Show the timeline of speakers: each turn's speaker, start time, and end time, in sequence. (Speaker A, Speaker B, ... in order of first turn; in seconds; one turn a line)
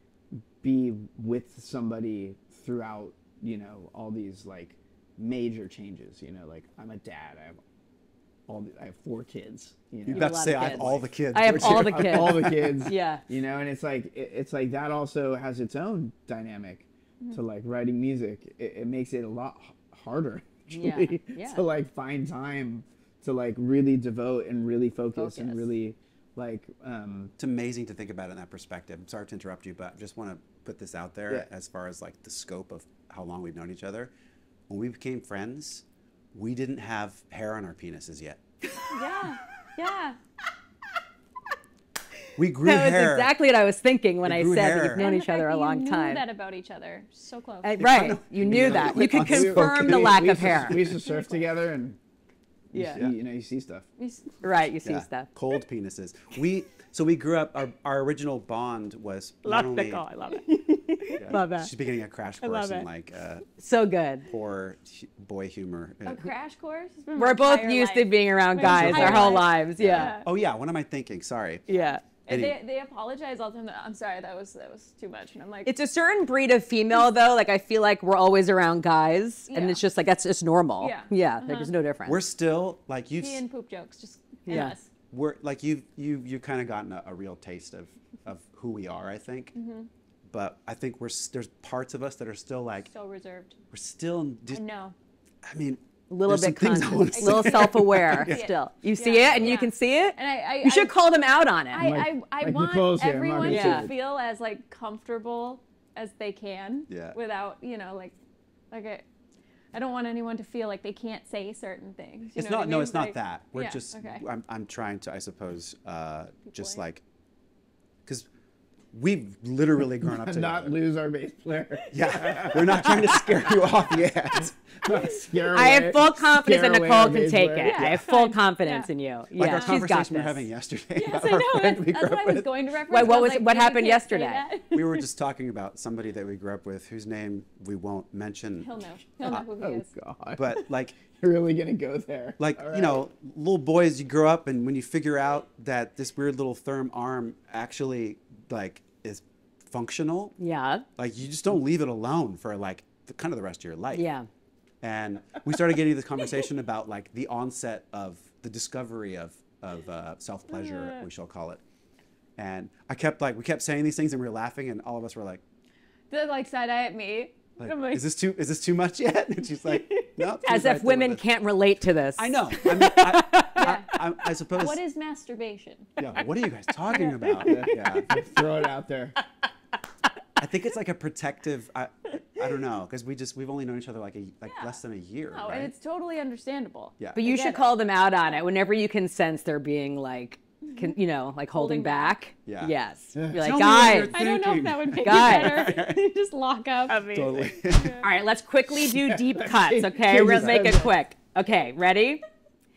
Speaker A: 0.3-7.6
Speaker A: 8.5-27.3
Speaker B: 10.0-12.8
Speaker C: 10.1-13.2
Speaker C: 20.7-21.6
Speaker C: 25.1-25.7
Speaker B: 27.4-34.1
Speaker B: 34.7-38.4
Speaker D: 38.9-40.2
Speaker B: 42.4-43.3
Speaker C: 42.6-46.2
Speaker B: 44.2-45.0
Speaker D: 45.0-47.8
Speaker C: 47.6-50.9
Speaker B: 47.8-50.9
Speaker A: 48.4-52.0
Speaker D: 51.0-51.4
Speaker A: 52.7-53.9
Speaker C: 52.7-53.0
Speaker D: 54.0-54.4
Speaker C: 54.4-55.3
Speaker B: 54.8-60.0
Speaker C: 59.4-61.7
Speaker B: 61.1-63.5
Speaker C: 62.4-62.9
Speaker C: 63.6-64.3
Speaker B: 64.2-66.3
Speaker D: 66.0-70.3
Speaker C: 67.2-70.2
Speaker B: 68.6-72.6
Speaker C: 71.7-72.0
Speaker D: 71.7-75.7
Speaker C: 75.6-82.2
Speaker D: 79.5-79.8
Speaker D: 80.8-81.7
Speaker B: 82.0-83.4
Speaker D: 83.2-84.9
Speaker C: 84.5-84.8
Speaker B: 84.5-89.5
Speaker D: 89.5-89.9
Speaker B: 90.3-92.9
Speaker D: 92.9-93.6
Speaker B: 93.7-94.6
Speaker D: 94.5-94.9
Speaker B: 95.4-98.5
Speaker C: 96.1-101.9
Speaker D: 97.1-101.0
Speaker B: 99.2-99.5
Speaker D: 101.7-108.1
Speaker A: 101.8-103.9
Speaker C: 103.4-103.9
Speaker B: 106.9-107.2
Speaker D: 108.7-109.0
Speaker D: 109.7-114.2
Speaker B: 112.3-117.0
Speaker D: 116.5-116.8
Speaker B: 118.9-120.8
Speaker A: 120.0-123.7
Speaker B: 121.9-124.6
Speaker D: 122.1-123.1
Speaker A: 124.3-128.0
Speaker C: 125.4-130.4
Speaker D: 127.7-128.9
Speaker B: 129.3-132.8
Speaker D: 129.4-129.8
Speaker D: 130.9-135.1
Speaker C: 132.9-134.4
Speaker B: 134.7-139.5
Speaker D: 138.6-139.9
Speaker A: 139.2-143.1
Speaker B: 140.3-141.0
Speaker B: 142.4-150.3
Speaker C: 150.4-150.8
Speaker B: 150.9-154.1
Speaker C: 153.9-154.3
Speaker B: 154.8-161.6
Speaker D: 160.5-161.1
Speaker B: 162.4-165.4
Speaker D: 166.1-168.1
Speaker B: 167.6-171.2
Speaker C: 170.4-173.8
Speaker B: 172.2-174.8
Speaker D: 173.5-176.2
Speaker B: 176.0-178.2
Speaker D: 176.9-177.7
Speaker C: 177.0-177.6
Speaker A: 177.4-179.2
Speaker B: 180.4-185.7
Speaker D: 184.5-184.8
Speaker D: 185.3-187.7
Speaker C: 187.1-195.8
Speaker D: 191.5-192.2
Speaker B: 192.4-192.8
Speaker A: 193.1-193.5
Speaker B: 193.3-196.0
Speaker D: 193.6-198.1
Speaker C: 196.9-197.5
Speaker B: 197.0-198.0
Speaker C: 198.0-202.2
Speaker A: 198.8-201.0